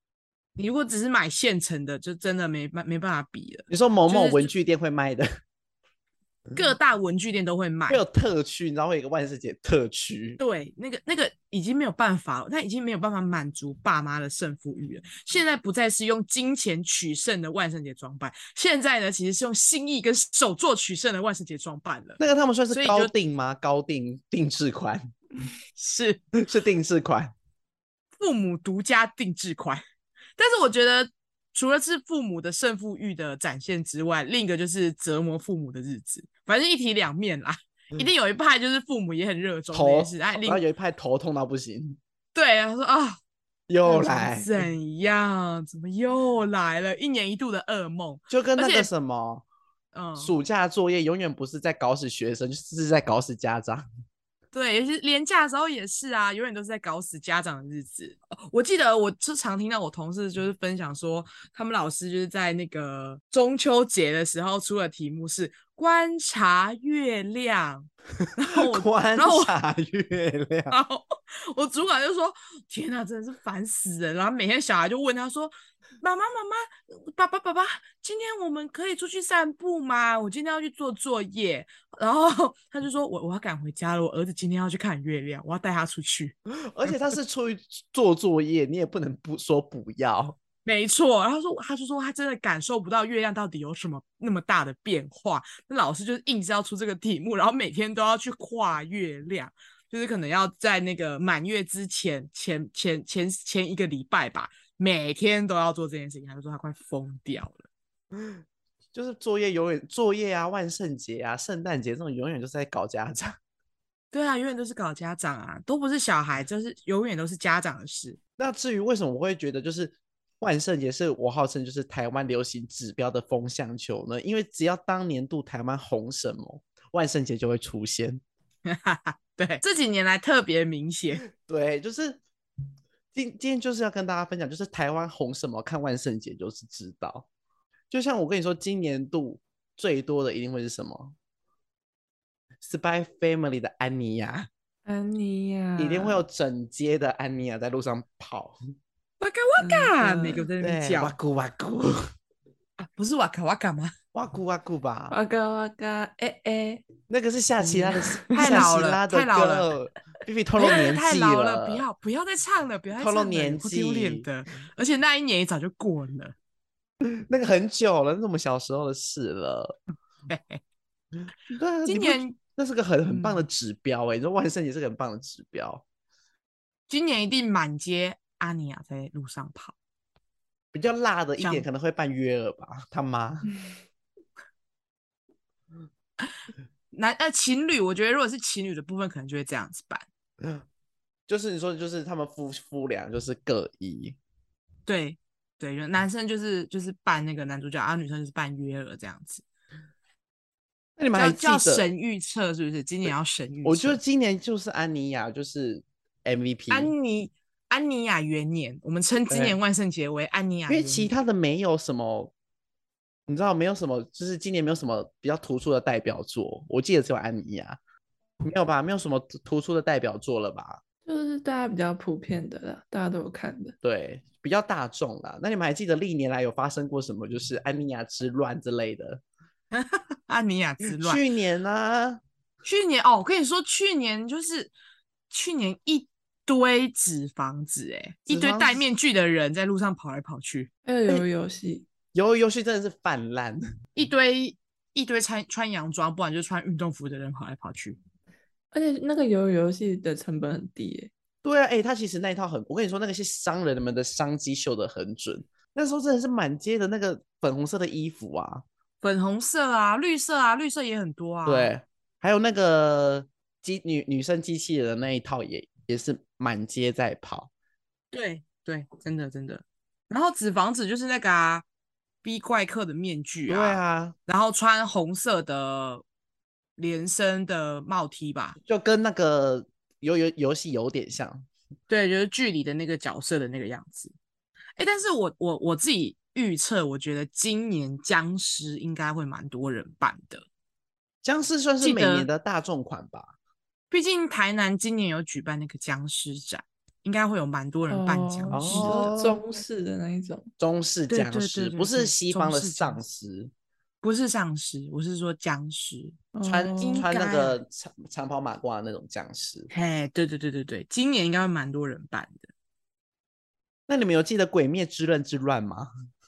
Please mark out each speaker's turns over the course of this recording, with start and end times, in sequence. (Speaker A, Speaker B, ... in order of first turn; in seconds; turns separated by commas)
Speaker A: 0.6-4.5, Speaker B: 3.7-5.3, Speaker A: 6.5-8.0, Speaker B: 7.9-10.4, Speaker A: 10.4-23.1, Speaker B: 22.2-25.1, Speaker A: 25.8-26.2, Speaker B: 26.4-27.3, Speaker A: 28.2-29.8, Speaker A: 30.4-40.6, Speaker B: 39.7-42.0, Speaker A: 42.3-43.2, Speaker B: 43.7-44.5, Speaker A: 43.9-48.9, Speaker B: 48.3-49.5, Speaker A: 49.9-50.3, Speaker B: 50.2-53.9, Speaker A: 54.5-69.5, Speaker B: 68.4-70.8, Speaker A: 70.7-86.4, Speaker B: 86.6-90.4, Speaker A: 90.7-107.7, Speaker B: 108.9-113.4, Speaker A: 114.1-118.2, Speaker B: 118.4-128.2, Speaker A: 128.7-131.2, Speaker B: 131.3-132.2, Speaker B: 133.1-137.3, Speaker B: 137.9-141.2, Speaker B: 142.6-144.5, Speaker C: 144.9-146.2, Speaker B: 145.8-148.6, Speaker A: 149.2-151.2, Speaker C: 149.6-150.4, Speaker B: 150.6-152.0, Speaker A: 152.8-153.9, Speaker B: 154.1-155.2, Speaker C: 155.1-156.8, Speaker B: 157.1-161.9, Speaker C: 157.6-158.7, Speaker A: 158.3-159.7, Speaker A: 160.6-166.3, Speaker B: 163.0-164.3, Speaker B: 167.0-169.8, Speaker A: 170.3-170.6, Speaker B: 171.5-175.8, Speaker A: 171.9-172.4, Speaker A: 173.1-173.4, Speaker A: 176.9-179.7, Speaker B: 180.7-183.5, Speaker A: 186.9-190.1, Speaker B: 191.3-194.2, Speaker A: 194.9-199.4, Speaker B: 201.0-201.9, Speaker A: 201.2-204.0, Speaker B: 203.7-206.9, Speaker A: 206.7-211.1, Speaker B: 209.3-209.6, Speaker B: 210.7-212.3, Speaker B: 213.3-217.8, Speaker B: 218.4-220.8, Speaker C: 221.1-223.8, Speaker B: 223.8-229.2, Speaker A: 229.7-231.2, Speaker B: 230.9-232.2, Speaker A: 232.7-234.7, Speaker A: 235.3-240.7, Speaker B: 238.3-238.8, Speaker C: 240.9-241.9, Speaker B: 242.1-243.6, Speaker A: 244.0-248.0, Speaker C: 248.7-251.1, Speaker B: 251.4-258.6, Speaker A: 259.0-261.7, Speaker B: 261.5-267.5, Speaker A: 268.1-271.6, Speaker A: 272.2-276.0, Speaker B: 273.5-274.2, Speaker A: 276.8-278.6, Speaker B: 278.6-281.5, Speaker A: 281.9-284.1, Speaker A: 284.8-290.4, Speaker B: 291.2-293.4, Speaker A: 291.8-292.3, Speaker A: 293.9-299.1, Speaker C: 297.9-300.5, Speaker B: 298.5-299.4, Speaker B: 300.6-303.5, Speaker A: 301.1-303.0, Speaker A: 304.0-306.2, Speaker C: 306.4-307.0, Speaker B: 306.4-309.7, Speaker A: 306.8-307.6, Speaker A: 309.7-312.5, Speaker B: 313.9-315.9